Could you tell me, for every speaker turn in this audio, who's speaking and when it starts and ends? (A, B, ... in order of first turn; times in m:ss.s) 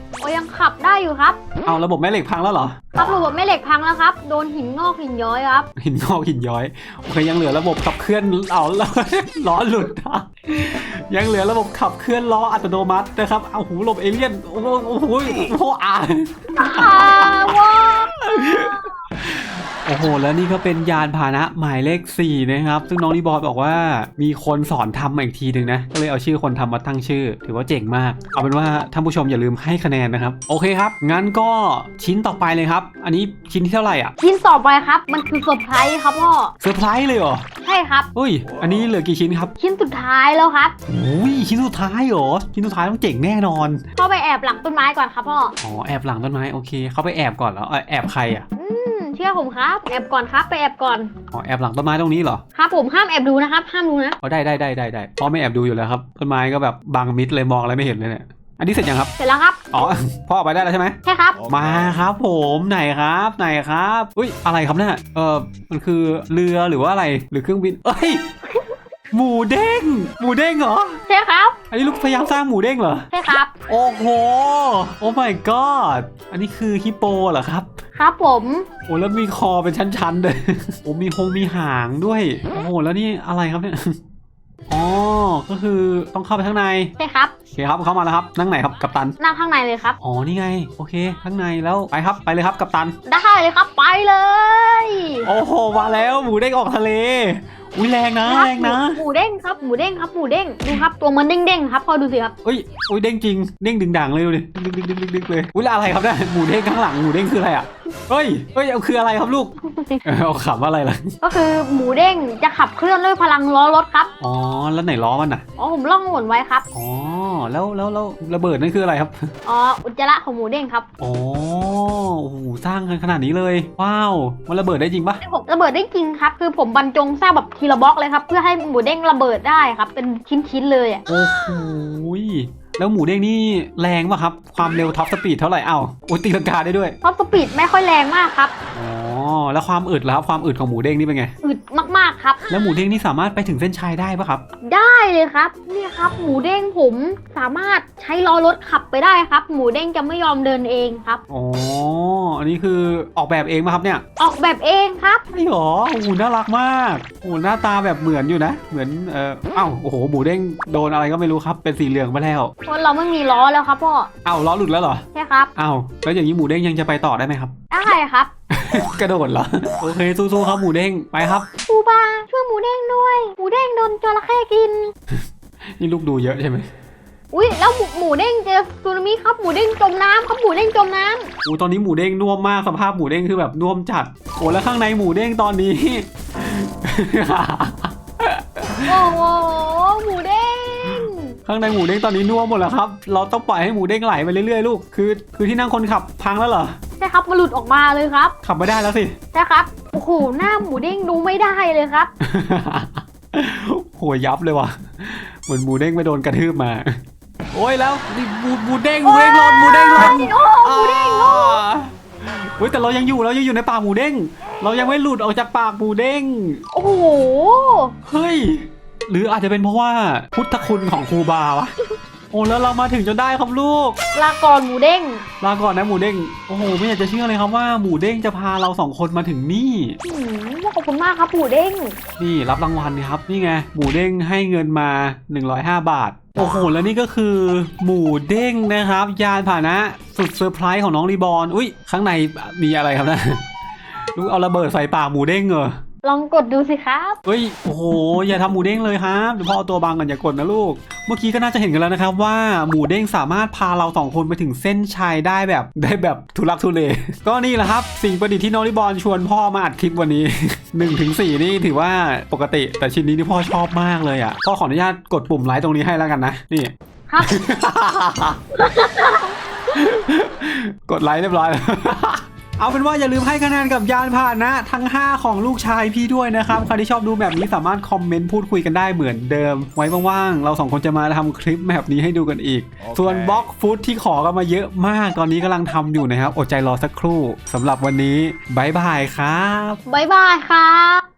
0:00.2-0:01.4 A
0:01.6-0:02.8 B
0:02.9-0:05.7 A
0:05.8-0:17.5 B
0:16.6-0:18.1 A
0:18.2-0:34.1 B
0:34.2-0:36.5 A
0:36.6-0:37.4 B
0:37.6-0:38.1 A
0:38.1-0:39.5 B
0:39.6-0:40.7 A
0:40.9-0:43.8 B
0:44.0-0:45.5 A
0:45.6-0:48.4 B
0:48.6-0:51.1 A
0:51.3-0:52.4 B
0:52.5-0:54.2 A
0:54.2-0:59.1 B
0:59.2-0:59.7 A
0:59.7-1:08.2 B
1:01.0-1:01.4 A
1:09.1-1:11.0 B
1:11.1-1:11.6 A
1:11.7-1:13.1 B
1:13.1-1:13.5 A
1:13.7-1:17.7 B
1:18.0-1:18.6 A
1:18.9-1:24.0 B
1:24.7-1:26.9 B
1:27.0-1:27.3 A
1:27.5-1:29.2 B
1:29.2-1:30.0 A
1:30.0-1:33.0 B
1:33.0-1:35.3 A
1:35.2-1:39.0 B
1:38.2-1:42.3 A
1:42.4-1:49.5 B
1:49.6-1:50.0 A
1:50.0-1:51.2 B
1:51.2-1:54.1 A
1:54.2-1:55.4 B
1:55.6-1:56.6 A
1:56.7-1:59.3 B
1:59.4-2:00.8 A
2:01.0-2:05.2 B
2:05.2-2:11.1 A
2:11.1-2:17.0 B
2:17.0-2:18.5 A
2:18.7-2:21.3 B
2:21.4-2:22.4 A
2:22.5-2:24.4 B
2:24.6-2:31.2 A
2:31.3-2:34.0 B
2:34.2-2:35.2 A
2:35.3-2:42.5 B
2:42.7-2:44.1 A
2:44.2-2:45.0 B
2:45.1-2:45.5 A
2:45.6-2:47.5 B
2:47.7-2:48.3 A
2:48.5-2:51.4 B
2:51.7-2:54.9 A
2:55.8-2:56.7 B
2:57.3-3:01.3 A
3:01.4-3:09.1 B
3:08.9-3:11.4 A
3:11.4-3:16.8 B
3:17.0-3:18.3 A
3:18.4-3:19.2 B
3:19.3-3:22.1 A
3:22.2-3:26.9 B
3:27.5-3:36.6 B
3:29.0-3:31.6 A
3:36.7-3:37.9 A
3:38.0-3:41.7 B
3:42.3-3:44.0 B
3:44.1-3:45.2 A
3:45.4-3:50.0 B
3:50.0-3:52.0 A
3:52.2-4:03.4 B
4:04.1-4:05.7 B
4:06.0-4:07.2 A
4:07.2-4:28.4 B
4:27.1-4:27.3 A
4:28.5-4:29.3 A
4:29.7-4:49.8 B
4:49.8-4:51.0 A